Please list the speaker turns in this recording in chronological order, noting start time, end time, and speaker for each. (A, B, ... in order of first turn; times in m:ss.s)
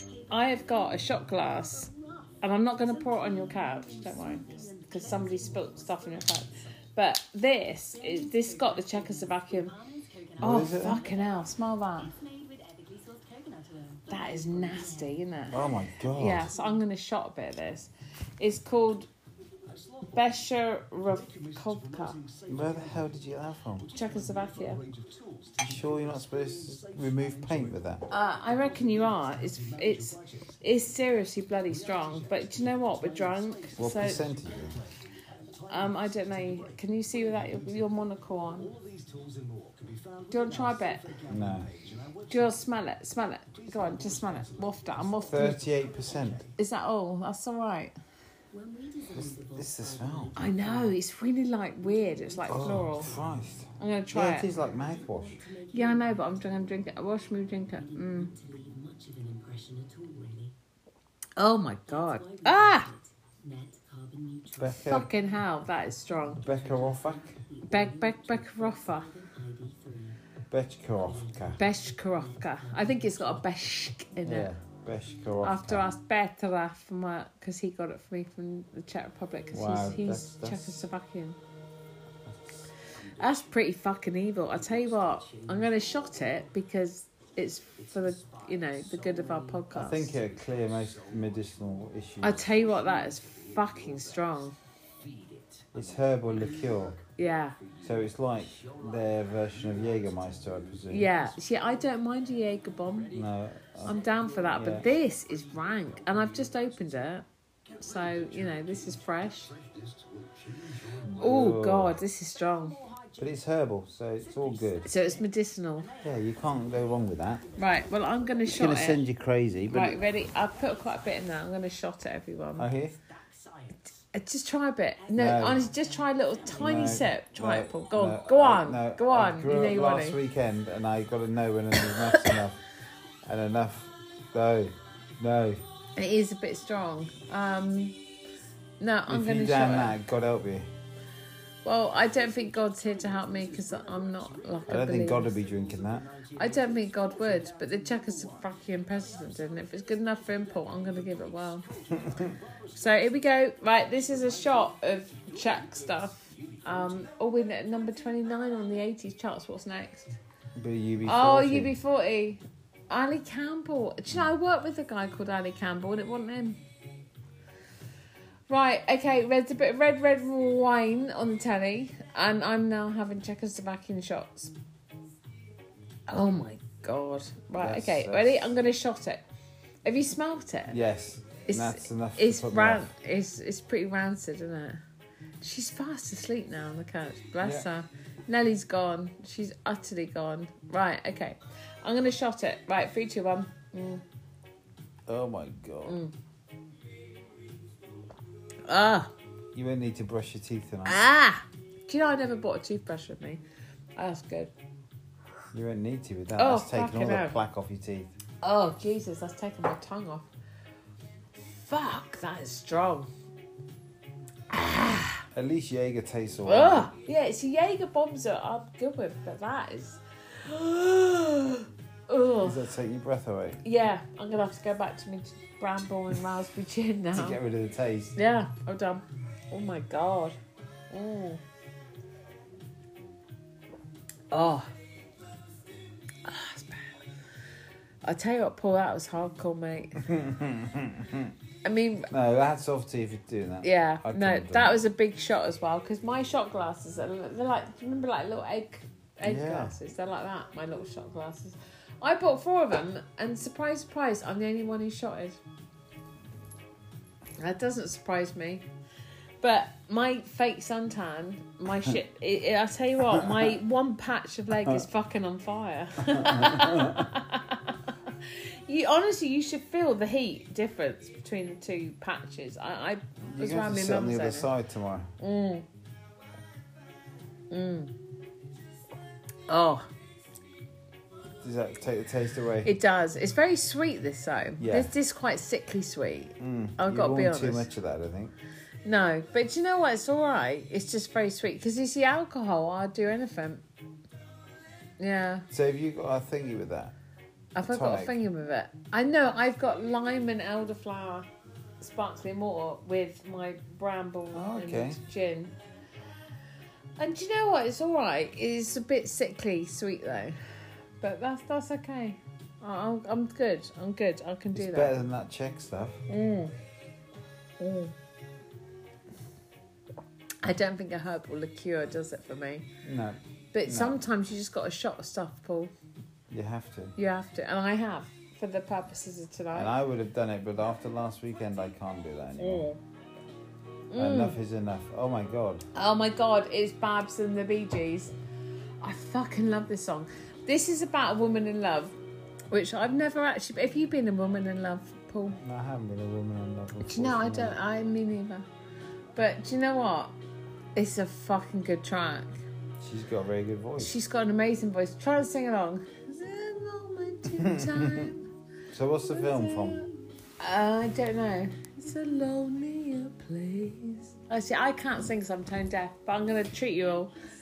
0:00.3-0:09.8 A
0:10.4-0:11.0 B
0:10.4-0:12.1 A
0:14.1-0:15.6 A
0:15.5-0:16.5 B
0:16.1-0:19.1 A
0:20.1-0:22.2 A
0:22.4-0:23.9 B
0:23.9-0:24.8 A
0:25.6-0:28.1 B
0:28.1-0:34.2 A
0:33.8-0:34.8 B
0:35.7-0:38.8 A
0:40.3-0:41.2 A
0:41.2-0:41.7 B
0:42.3-0:45.6 A
0:45.3-0:46.5 B
0:46.6-0:47.9 A
0:49.1-0:50.4 B
0:50.4-0:53.1 A
0:52.4-0:55.4 B
0:53.8-0:54.5 A
0:55.7-0:58.4 A
1:01.4-1:02.9 A
1:04.5-1:05.1 B
1:04.7-1:06.4 A
1:06.4-1:07.4 B
1:07.6-1:09.1 A
1:10.5-1:11.6 B
1:11.6-1:14.5 A
1:14.2-1:15.9 B
1:15.4-1:21.4 A
1:19.5-1:20.8 B
1:23.2-1:30.2 A
1:29.7-1:32.5 B
1:32.2-1:34.5 A
1:35.7-1:37.0 B
1:37.2-1:37.6 A
1:37.8-1:41.1 B
1:40.9-1:43.2 A
1:43.1-1:44.9 B
1:43.8-1:47.2 A
1:47.8-1:49.6 A
1:51.1-1:51.9 B
1:51.2-1:52.8 A
1:53.2-1:54.9 B
1:54.8-1:55.9 A
1:56.0-1:57.4 B
1:57.6-1:59.0 A
1:58.5-2:00.0 B
1:59.7-2:02.7 A
2:02.6-2:03.0 B
2:04.1-2:10.2 A
2:05.1-2:05.7 B
2:06.6-2:12.6 B
2:11.8-2:12.4 A
2:13.2-2:15.6 B
2:16.0-2:18.0 A
2:18.8-2:20.0 A
2:19.1-2:20.7 B
2:21.6-2:25.4 A
2:24.7-2:26.2 B
2:26.3-2:31.7 A
2:32.0-2:32.3 B
2:32.7-2:40.2 A
2:40.6-2:41.7 B
2:41.0-2:46.6 A
2:48.5-2:54.5 A
2:56.1-2:59.2 A
2:57.5-2:58.4 B
2:59.8-3:00.8 A
3:00.7-3:02.9 B
3:01.5-3:04.8 A
3:05.4-3:14.0 A
3:07.4-3:07.7 B
3:15.1-3:16.0 B
3:15.8-3:16.1 A
3:18.6-3:19.1 A
3:19.5-3:21.0 B
3:20.8-3:23.4 A
3:24.0-3:24.5 A
3:25.5-3:28.1 B
3:26.4-3:27.4 A
3:28.4-3:30.3 A
3:31.6-3:33.1 A
3:34.5-3:35.2 A
3:35.3-3:36.9 B
3:36.4-3:42.6 A
3:42.4-3:43.6 B
3:43.6-3:47.4 A
3:47.1-3:48.1 B
3:48.2-3:50.4 A
3:50.9-3:51.4 A
3:54.3-3:54.7 A
3:56.2-3:57.0 A
3:58.0-4:00.0 A
4:00.0-4:01.3 B
4:01.6-4:02.1 A
4:02.1-4:04.8 B
4:03.6-4:15.4 A
4:09.2-4:09.7 B
4:17.4-4:18.6 A
4:19.4-4:34.5 A
4:23.1-4:23.5 B
4:26.0-4:27.1 B
4:33.3-4:35.1 B
4:35.2-4:35.6 A
4:37.5-4:37.9 A
4:39.5-4:39.9 A
4:41.4-4:42.7 B
4:42.6-4:47.7 A
4:44.6-4:44.9 B
4:46.4-4:48.3 B
4:48.8-4:53.6 A
4:55.0-4:55.5 A
4:55.5-4:56.9 B
4:57.5-5:01.3 A
4:57.6-4:58.2 B
5:01.8-5:05.5 A
5:04.3-5:05.0 B
5:07.0-5:10.4 A
5:11.0-5:15.0 A
5:14.5-5:16.0 B
5:16.1-5:16.5 A
5:17.6-5:17.9 A
5:20.4-5:22.7 A
5:22.8-5:24.0 B
5:23.5-5:25.7 A
5:26.3-5:26.9 B
5:27.0-5:29.7 A
5:29.5-5:32.7 B
5:32.4-5:32.8 A
5:33.9-5:34.4 A
5:34.0-5:35.6 B
5:35.7-5:38.1 A
5:38.8-5:41.9 A
5:42.5-5:45.4 A
5:45.4-5:47.6 B
5:46.8-5:48.5 A
5:49.2-5:50.1 A
5:50.7-5:52.4 A
5:52.8-5:54.0 B
5:53.8-5:58.3 A
5:57.3-5:58.1 B
5:58.7-5:59.8 B
5:59.1-6:07.1 A